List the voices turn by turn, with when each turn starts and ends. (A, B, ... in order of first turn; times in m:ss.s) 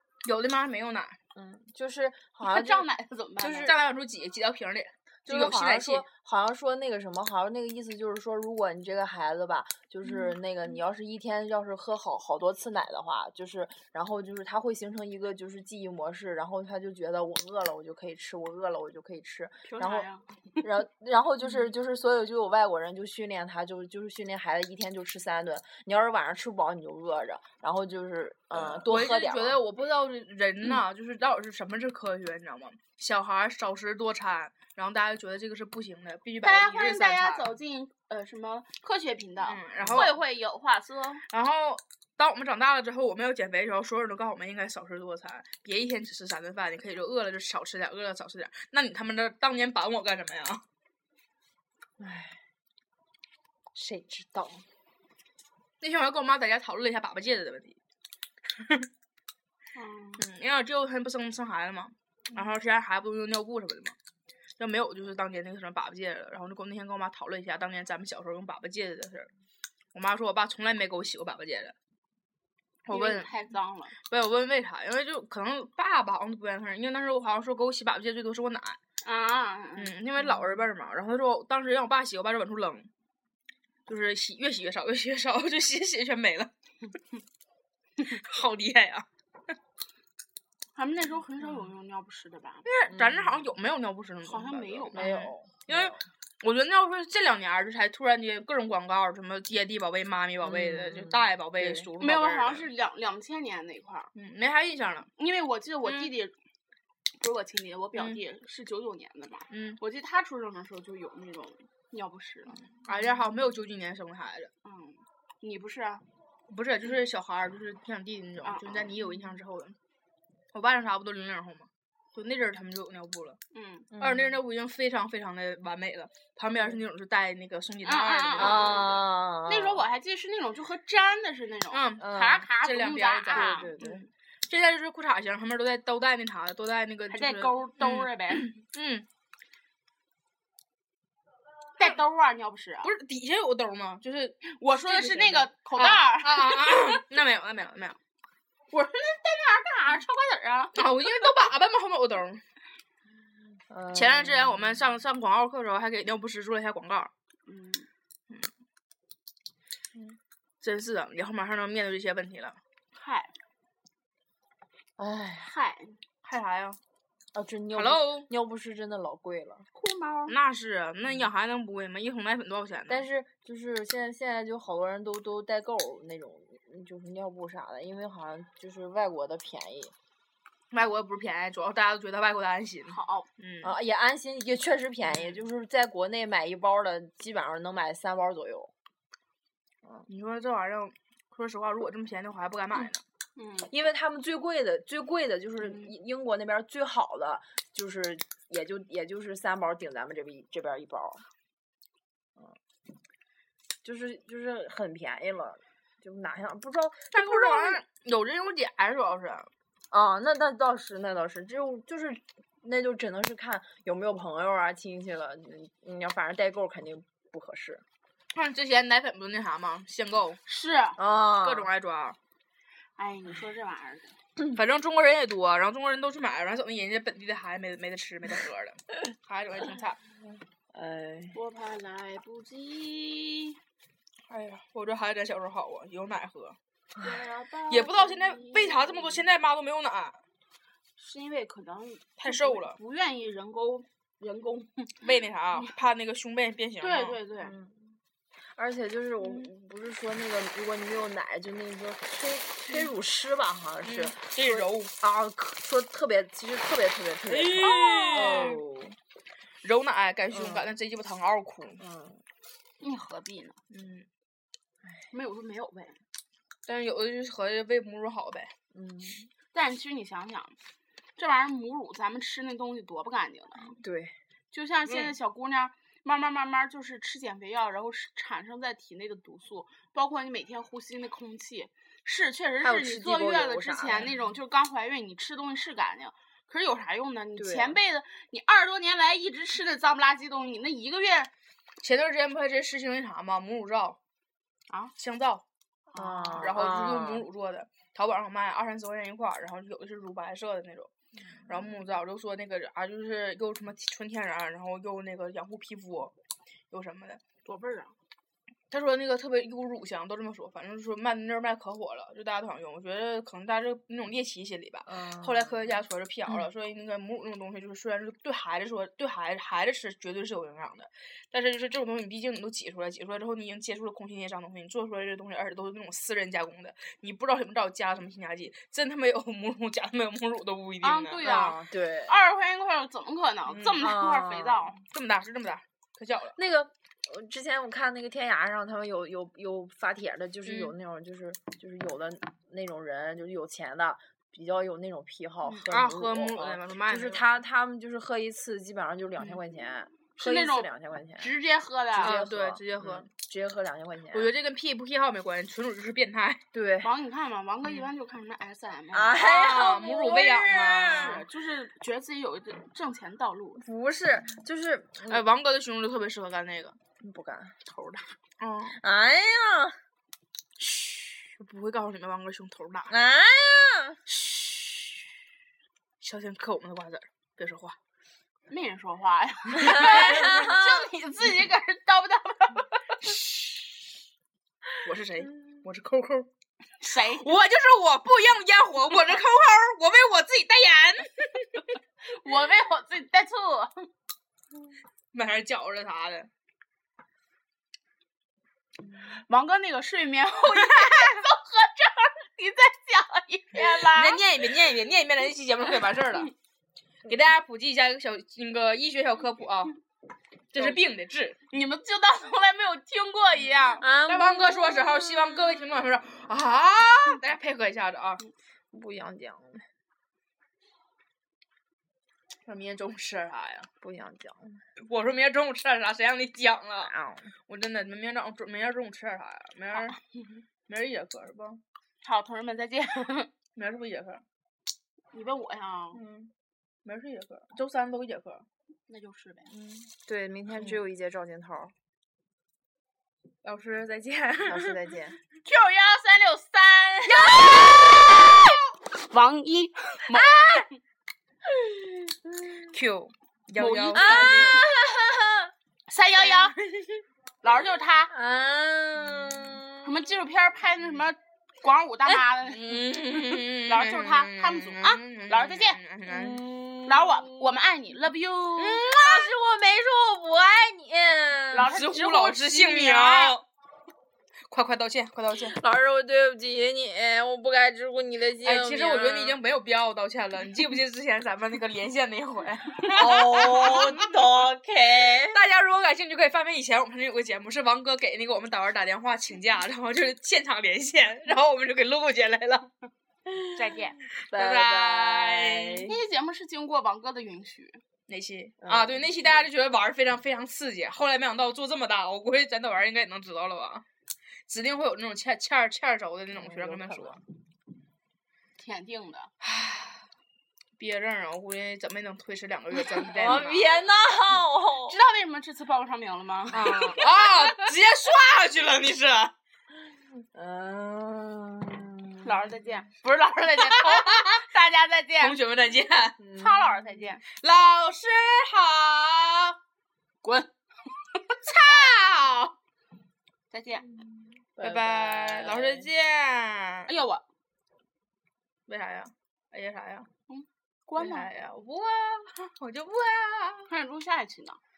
0:00.2-0:01.2 A
0:01.3-0:02.9 B
0:02.4-0:03.8 C
0:03.4-0:03.8 B
0:03.6-0:06.1 A
0:05.3-0:20.1 B
0:19.6-0:20.6 C
0:20.6-0:29.6 B
0:28.5-0:37.5 A
0:36.4-0:41.2 C
0:39.4-0:40.2 A
0:39.8-0:40.1 B
0:41.3-0:50.6 A
0:52.0-0:52.4 B
0:53.8-0:54.6 B
0:55.8-0:57.8 A
0:59.8-1:00.2 C
1:00.2-1:04.0 A
1:04.6-1:09.3 A
1:09.9-1:11.7 A
1:12.9-1:13.3 A
1:12.9-1:14.0 C
1:14.0-1:18.8 A
1:19.0-1:19.9 C
1:19.8-1:22.9 A
1:23.9-1:26.5 A
1:28.0-1:29.1 A
1:30.8-1:32.7 C
1:32.6-1:42.7 A
1:32.9-1:33.4 B
1:34.2-1:35.1 C
1:34.9-1:36.0 B
1:40.4-1:41.9 B
1:42.0-1:44.1 C
1:44.2-1:45.1 A
1:45.2-1:46.4 C
1:45.8-1:46.1 A
1:47.2-1:52.7 C
1:49.5-1:49.8 A
1:52.8-1:54.5 A
1:54.6-1:56.0 C
1:56.5-1:59.8 A
1:58.4-1:58.9 C
2:00.5-2:03.4 A
2:03.5-2:03.9 C
2:03.9-2:04.4 B
2:04.0-2:09.0 A
2:07.8-2:13.7 C
2:08.4-2:09.8 B
2:11.7-2:19.1 A
2:12.0-2:12.5 B
2:13.3-2:14.0 B
2:17.1-2:18.6 C
2:21.8-2:22.9 C
2:22.8-2:28.0 A
2:24.5-2:27.0 C
2:28.7-2:31.3 C
2:30.8-2:32.4 A
2:33.7-2:34.8 B
2:33.9-2:37.1 A
2:37.5-2:37.9 C
2:40.6-2:42.6 A
2:43.0-2:43.3 C
2:45.0-2:45.5 B
2:45.4-2:46.0 C
2:46.2-2:46.8 A
2:47.3-2:50.3 B
2:47.7-2:48.3 A
2:49.8-2:50.3 C
2:50.3-2:53.1 A
2:52.9-2:59.9 B
3:00.7-3:03.8 A
3:02.9-3:03.3 C
3:03.6-3:08.7 B
3:10.1-3:13.0 A
3:13.4-3:13.7 C
3:13.7-3:21.2 B
3:15.6-3:15.9 C
3:23.8-3:27.8 B
3:27.1-3:29.5 A
3:29.9-3:37.8 B
3:38.3-3:40.4 A
3:40.5-3:41.0 C
3:41.0-3:41.7 B
3:41.4-3:42.2 A
3:43.0-3:44.2 C
3:44.5-3:50.0 A
3:50.7-3:51.4 B
3:51.3-3:53.6 C
3:54.3-3:56.6 A
3:57.0-3:59.2 C
3:57.7-4:00.2 A
4:01.0-4:05.0 C
4:02.2-4:02.8 A
4:05.0-4:07.2 A
4:06.8-4:07.6 C
4:07.4-4:08.0 B
4:08.5-4:19.0 B
4:13.8-4:14.9 A
4:17.3-4:18.6 A
4:17.6-4:18.6 C
4:19.6-4:21.8 A
4:20.3-4:20.8 B
4:21.8-4:22.2 B
4:22.8-4:23.6 C
4:23.7-4:24.1 A
4:25.1-4:26.0 C
4:26.7-4:28.5 A
4:28.7-4:29.3 B
4:29.5-4:30.6 C
4:31.2-4:33.8 C
4:33.8-4:34.2 B
4:34.5-4:51.3 C
4:34.9-4:35.2 A
4:42.6-4:44.1 B
4:47.4-4:47.8 B
4:51.8-4:54.0 A
4:55.0-4:55.4 A
4:55.9-4:57.3 B
4:56.0-4:56.5 C
4:56.3-5:00.9 A
5:01.5-5:06.1 A
5:06.7-5:07.2 A
5:07.4-5:08.0 C
5:08.7-5:31.6 A
5:14.9-5:15.7 B
5:30.8-5:34.8 C
5:31.2-5:32.2 B
5:33.5-5:33.9 A
5:33.8-5:34.8 B
5:34.9-5:36.4 A
5:36.4-5:51.3 B
5:40.4-5:40.8 A
5:45.4-5:47.4 A
5:50.2-5:52.2 C
5:52.0-5:54.3 B
5:52.0-5:53.1 A
5:54.1-5:56.4 A
5:56.5-5:56.9 B
5:56.8-5:59.2 C
5:57.6-5:57.9 A
5:58.9-6:01.2 B
5:59.2-6:01.2 A
6:00.9-6:03.6 C
6:03.6-6:05.3 B
6:05.1-6:06.8 A
6:07.0-6:07.6 B
6:07.8-6:08.8 A
6:08.7-6:09.8 B
6:10.6-6:12.9 A
6:12.9-6:14.0 B
6:14.1-6:15.0 A
6:16.0-6:17.8 A
6:18.5-6:22.9 C
6:19.8-6:20.2 A
6:20.0-6:20.6 B
6:23.0-6:23.4 A
6:24.8-6:26.3 A
6:26.8-6:27.3 C
6:27.2-6:31.6 A
6:32.0-6:33.9 C
6:35.1-6:36.3 A
6:39.1-6:44.2 C
6:40.5-6:41.1 A
6:43.6-6:46.3 A
6:47.0-6:49.8 A
6:50.5-6:51.4 A
6:51.5-6:53.8 C
6:53.8-6:55.3 B
6:54.0-6:58.2 A
6:58.7-6:59.6 B
7:02.5-7:03.7 A
7:03.8-7:04.6 B
7:04.8-7:06.9 A
7:06.8-7:07.4 B
7:07.5-7:10.0 A
7:09.8-7:10.4 C
7:10.7-7:11.6 A
7:12.0-7:13.3 C
7:13.6-7:14.2 A
7:15.1-7:16.0 C
7:15.9-7:16.3 A
7:16.8-7:18.4 A
7:18.9-7:19.5 C
7:19.6-7:19.9 A
7:19.9-7:21.7 B
7:20.5-7:20.8 A
7:23.4-7:25.0 A
7:24.5-7:25.2 B
7:25.4-7:30.7 C
7:26.8-7:27.9 B
7:30.1-7:30.7 B
7:31.5-7:32.7 B
7:32.7-7:34.7 A
7:33.6-7:34.7 C
7:34.0-7:35.5 B
7:35.9-7:36.6 C
7:36.2-7:37.0 A
7:37.4-7:38.1 C
7:38.1-7:40.0 B
7:39.0-7:39.4 A
7:39.8-7:42.9 C
7:42.4-7:46.4 A
7:43.7-7:45.8 C
7:46.1-7:47.5 B
7:46.9-7:48.8 C
7:48.6-7:51.7 B
7:48.8-7:49.3 A
7:51.5-7:53.3 C
7:51.6-7:53.4 A
7:54.5-7:55.6 A
7:55.3-7:59.4 B
7:58.4-8:04.0 A
8:03.0-8:05.4 B
8:05.3-8:12.7 A
8:13.5-8:14.0 C
8:14.2-8:15.9 A
8:14.3-8:16.0 B
8:15.9-8:17.8 C
8:18.1-8:23.8 A
8:18.6-8:19.5 B
8:24.5-8:27.2 A
8:26.3-8:27.2 B
8:28.6-8:29.3 C
8:29.4-8:30.0 A
8:30.8-8:33.9 A
8:32.9-8:35.0 B
8:34.8-8:37.2 C
8:36.5-8:39.3 A
8:40.3-8:42.4 B
8:42.2-8:45.4 C
8:43.6-8:44.4 A
8:45.2-8:46.2 A
8:46.2-8:47.0 B
8:46.4-8:47.2 C
8:47.4-8:49.6 A
8:50.2-8:50.9 C
8:51.4-8:52.5 A
8:53.5-8:53.9 C
8:54.4-8:55.9 B
8:54.6-8:56.9 A
8:56.9-8:57.2 C
8:58.7-9:00.1 A
9:00.3-9:01.3 C
9:01.0-9:03.7 A
9:03.7-9:04.6 C